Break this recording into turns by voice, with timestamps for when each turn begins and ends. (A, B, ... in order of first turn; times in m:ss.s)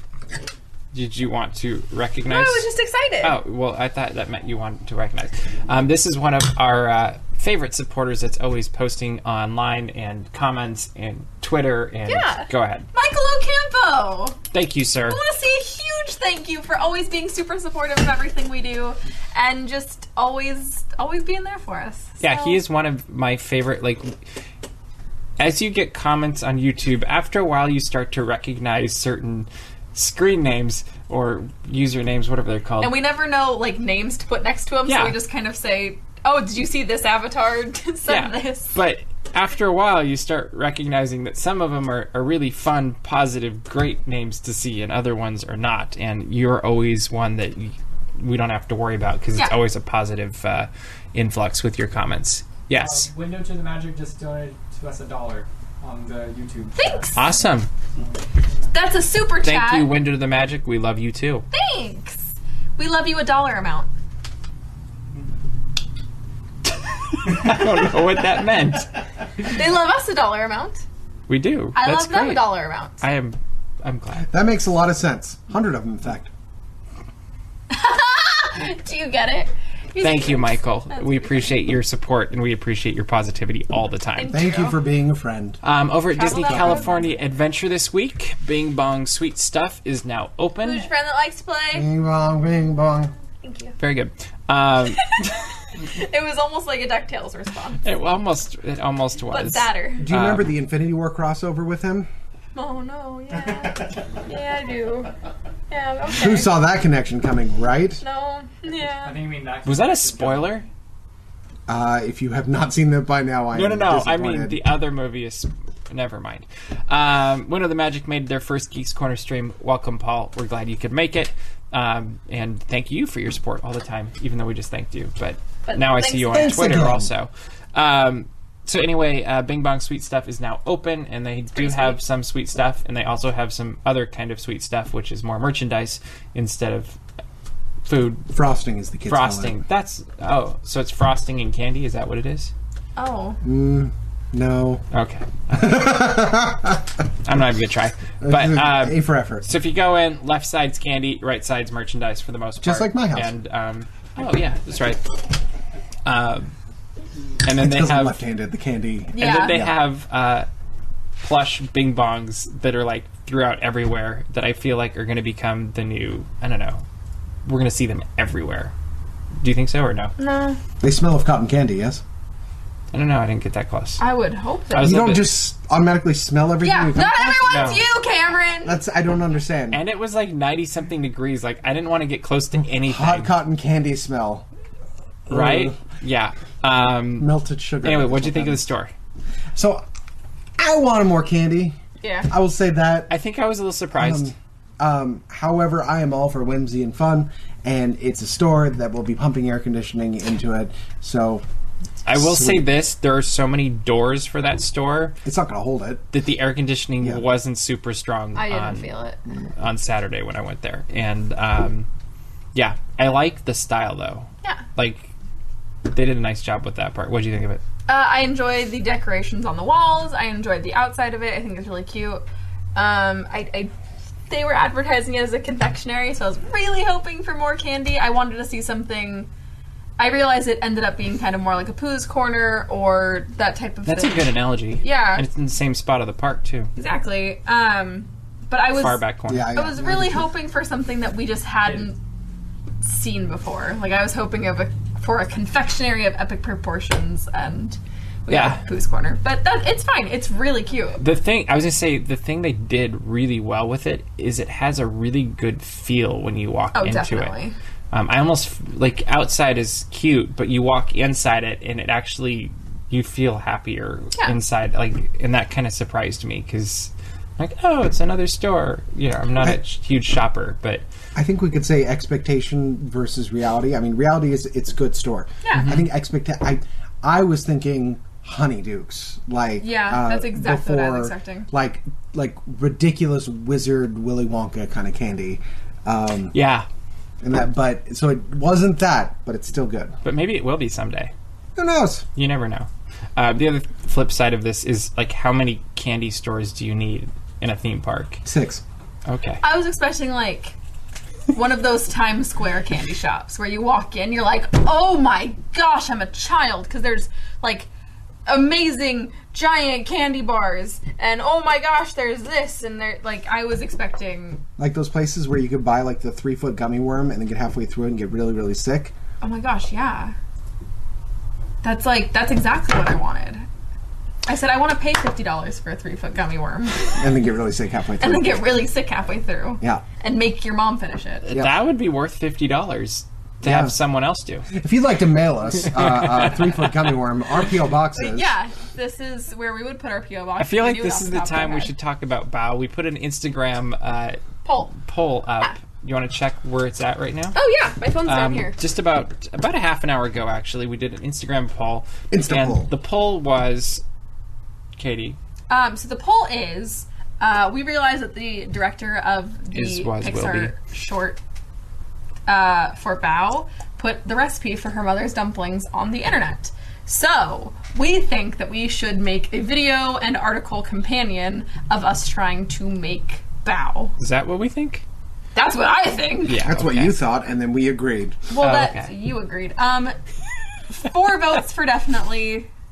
0:00.9-0:02.7 A
0:02.3-0:03.4 B
0:03.2-0:12.9 A
0:12.0-0:14.4 B
0:14.5-0:15.2 A
0:15.1-0:22.6 B
0:22.2-0:24.2 A
0:25.4-0:33.0 A
0:32.8-0:38.7 B
0:34.9-0:35.2 A
0:38.1-0:53.1 A
0:52.7-0:57.0 C
0:56.8-0:57.2 B
0:57.1-0:57.7 A
0:58.0-0:58.7 C
0:58.7-0:59.9 B
0:59.4-1:01.4 A
1:01.5-1:03.9 B
1:07.2-1:08.9 A
1:09.4-1:10.8 B
1:11.3-1:14.3 A
1:11.8-1:13.0 B
1:14.3-1:16.3 D
1:17.7-1:21.5 B
1:20.0-1:24.4 A
1:24.2-1:24.8 B
1:24.3-1:25.6 D
1:25.6-1:30.9 A
1:26.1-1:27.1 B
1:26.4-1:26.8 D
1:30.6-1:31.9 B
1:31.7-1:33.1 D
1:33.4-1:33.8 B
1:33.8-1:35.4 A
1:34.8-1:37.8 B
1:37.8-1:40.5 A
1:39.3-1:40.1 B
1:40.0-1:42.1 D
1:42.5-1:45.1 B
1:45.7-1:46.5 B
1:46.1-1:48.0 D
1:48.0-1:49.2 B
1:48.9-1:50.7 C
1:49.6-1:50.6 A
1:51.7-1:54.6 D
1:53.5-2:17.0 A
2:05.6-2:06.7 B
2:06.3-2:07.1 D
2:11.5-2:12.0 B
2:17.8-2:18.3 A
2:18.3-2:19.6 D
2:19.1-2:22.5 A
2:23.0-2:23.4 B
2:23.4-2:24.8 D
2:24.9-2:26.2 A
2:25.5-2:26.8 D
2:27.2-2:35.2 A
2:28.2-2:29.5 D
2:32.6-2:33.3 D
2:36.0-2:36.5 A
2:37.4-2:38.2 A
2:37.5-2:39.8 D
2:39.1-2:39.6 B
2:39.2-2:40.5 A
2:41.2-2:46.8 A
2:47.4-2:48.7 A
2:49.4-2:50.1 A
2:50.2-2:50.6 B
2:50.8-2:52.0 D
2:52.9-2:54.0 A
2:54.0-2:55.1 B
2:54.7-2:55.3 A
2:54.8-2:57.7 D
2:56.6-2:58.8 B
2:57.4-2:57.8 A
2:58.6-2:59.8 D
2:59.7-3:03.3 A
3:02.8-3:04.4 D
3:05.3-3:05.8 D
3:05.3-3:07.3 A
3:07.2-3:08.6 D
3:07.8-3:08.9 A
3:09.5-3:09.8 D
3:10.6-3:11.8 D
3:12.0-3:12.3 B
3:12.3-3:13.1 D
3:13.1-3:14.3 A
3:14.0-3:21.4 D
3:22.0-3:25.2 A
3:22.1-3:22.6 D
3:25.2-3:26.0 D
3:26.1-3:28.9 A
3:28.3-3:29.2 B
3:29.6-3:31.9 A
3:32.5-3:35.1 A
3:35.8-3:37.6 A
3:37.9-3:42.2 B
3:42.7-3:43.7 B
3:44.3-3:49.3 B
3:50.0-3:55.2 B
3:53.8-3:56.7 A
3:56.8-4:02.0 B
3:58.7-3:59.5 A
3:59.3-4:00.3 D
4:02.8-4:11.0 B
4:08.3-4:08.6 A
4:11.0-4:17.3 A
4:16.7-4:17.5 B
4:17.9-4:30.8 A
4:31.1-4:46.3 D
4:35.4-4:35.7 B
4:35.5-4:35.8 A
4:39.6-4:41.5 B
4:46.3-4:46.7 A
4:47.2-4:49.9 D
4:50.0-4:51.1 A
4:51.6-4:52.1 D
4:52.2-4:58.2 A
4:58.2-4:58.6 D
4:59.0-4:59.4 A
4:59.4-5:00.5 B
5:01.3-5:07.7 B
5:08.3-5:14.4 B
5:14.6-5:18.9 D
5:19.2-5:20.1 B
5:21.6-5:23.4 B
5:24.2-5:27.1 B
5:26.9-5:28.4 D
5:28.0-5:31.2 B
5:31.2-5:34.5 A
5:31.3-5:31.6 D
5:33.4-5:33.7 D
5:34.5-5:38.3 D
5:35.8-5:36.6 A
5:37.9-5:41.7 B
5:40.4-5:47.4 A
5:44.4-5:44.7 B
5:47.3-5:48.6 B
5:48.0-5:53.8 A
5:52.1-5:52.7 D
5:54.8-5:55.2 A
5:55.5-6:01.2 B
5:59.5-6:00.5 A
6:02.3-6:13.9 B
6:14.0-6:14.8 A
6:15.3-6:16.4 B
6:16.2-6:17.0 A
6:16.4-6:18.2 D
6:18.3-6:20.0 B
6:18.4-6:18.9 A
6:20.7-6:22.5 B